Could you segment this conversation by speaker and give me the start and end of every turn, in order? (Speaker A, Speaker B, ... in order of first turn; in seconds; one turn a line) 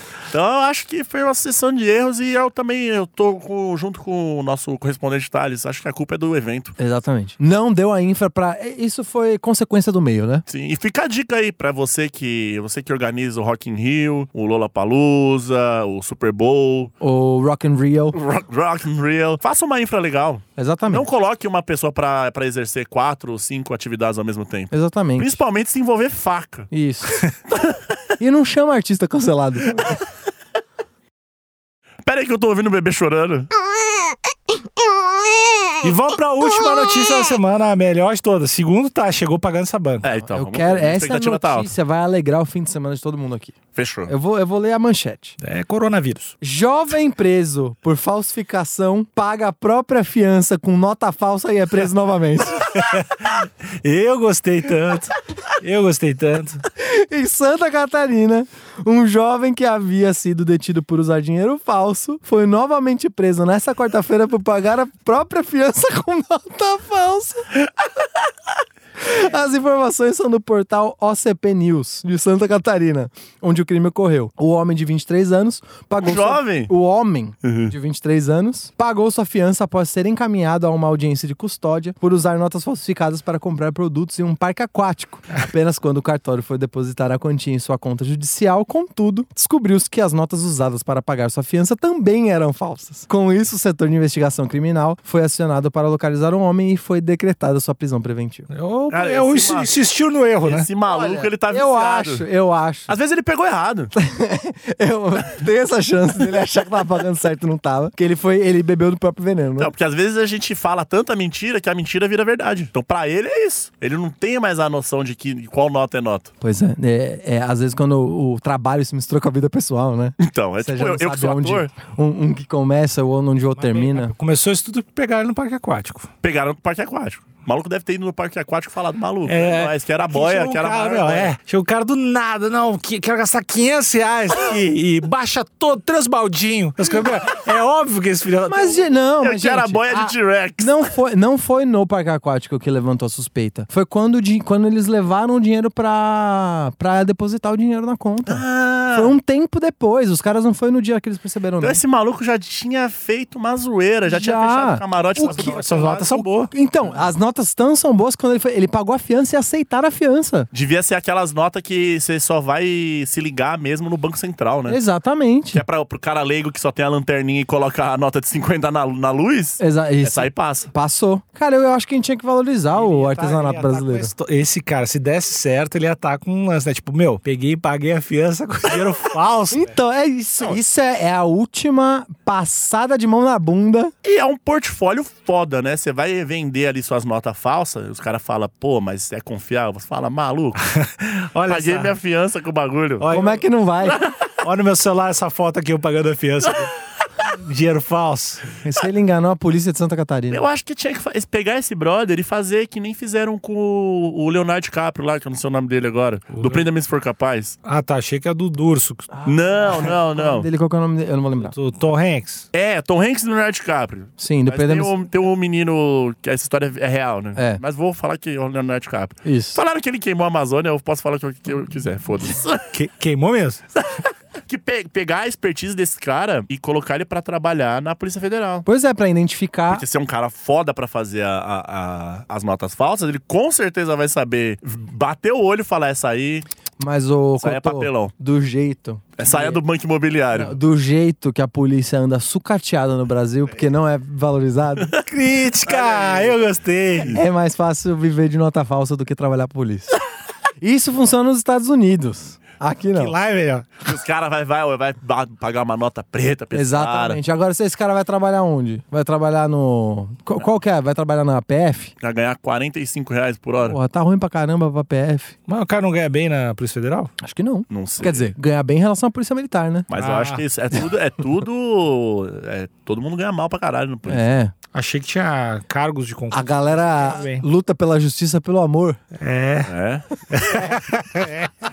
Speaker A: 0.3-6.7
Speaker B: 6.8-10.4
Speaker A: 10.5-16.9
Speaker B: 17.0-18.2
Speaker A: 18.1-26.7
Speaker B: 20.6-21.1
Speaker B: 24.7-25.4
Speaker B: 26.7-27.2
Speaker A: 27.5-27.8
Speaker B: 28.2-30.0
Speaker A: 32.0-33.5
Speaker C: 35.8-40.0
Speaker A: 40.0-41.7
Speaker B: 40.3-45.4
Speaker A: 43.7-44.1
Speaker C: 45.4-46.3
Speaker B: 46.4-52.7
Speaker C: 52.7-56.6
Speaker B: 56.8-67.9
Speaker B: 69.0-98.5
Speaker A: 76.0-76.7
Speaker A: 77.4-77.7
Speaker C: 98.5-100.7
Speaker A: 98.9-99.7
Speaker A: 100.4-102.2
Speaker B: 100.8-102.9
Speaker A: 102.9-103.9
Speaker B: 103.9-109.7
Speaker A: 109.6-116.3
Speaker B: 116.4-124.1
Speaker A: 120.2-121.7
Speaker C: 123.5-126.1
Speaker A: 126.2-131.3
Speaker C: 129.3-138.8
Speaker B: 138.5-151.8
Speaker A: 139.2-140.7
Speaker A: 148.2-149.1
Speaker A: 151.6-156.4
Speaker B: 154.1-155.6
Speaker C: 155.2-156.5
Speaker B: 156.5-160.5
Speaker A: 160.5-164.8
Speaker B: 164.7-165.6
Speaker A: 165.5-170.7
Speaker B: 169.6-174.1
Speaker C: 172.7-179.7
Speaker B: 179.5-183.9
Speaker A: 184.0-190.6
Speaker C: 190.6-191.9
Speaker A: 191.5-193.1
Speaker C: 193.0-193.4
Speaker B: 193.1-194.0
Speaker A: 193.8-194.1
Speaker C: 194.4-196.7
Speaker C: 197.2-198.5
Speaker B: 198.6-200.4
Speaker A: 200.3-207.6
Speaker C: 206.3-206.7
Speaker C: 207.6-209.1
Speaker B: 209.1-211.5
Speaker A: 209.2-210.5
Speaker C: 211.4-212.4
Speaker A: 212.5-222.7
Speaker B: 214.2-214.9
Speaker B: 217.3-217.6
Speaker B: 219.2-219.6
Speaker C: 222.7-223.6
Speaker A: 224.4-228.7
Speaker B: 228.7-229.8
Speaker A: 229.7-236.4
Speaker B: 236.8-239.6
Speaker A: 237.4-238.1
Speaker A: 239.2-240.6
Speaker B: 240.3-244.9
Speaker A: 244.8-246.4
Speaker C: 245.1-247.2
Speaker A: 247.0-247.2
Speaker B: 247.1-249.9
Speaker B: 250.6-253.1
Speaker C: 252.9-253.7
Speaker A: 253.8-257.2
Speaker B: 256.5-261.9
Speaker A: 262.0-263.8
Speaker B: 263.6-265.3
Speaker C: 265.5-267.1
Speaker B: 267.2-269.9
Speaker A: 267.7-268.3
Speaker A: 269.9-274.3
Speaker C: 269.9-270.4
Speaker B: 274.1-274.5
Speaker C: 274.7-277.4
Speaker B: 276.3-279.0
Speaker C: 279.2-279.7
Speaker A: 279.7-280.1
Speaker C: 280.3-281.5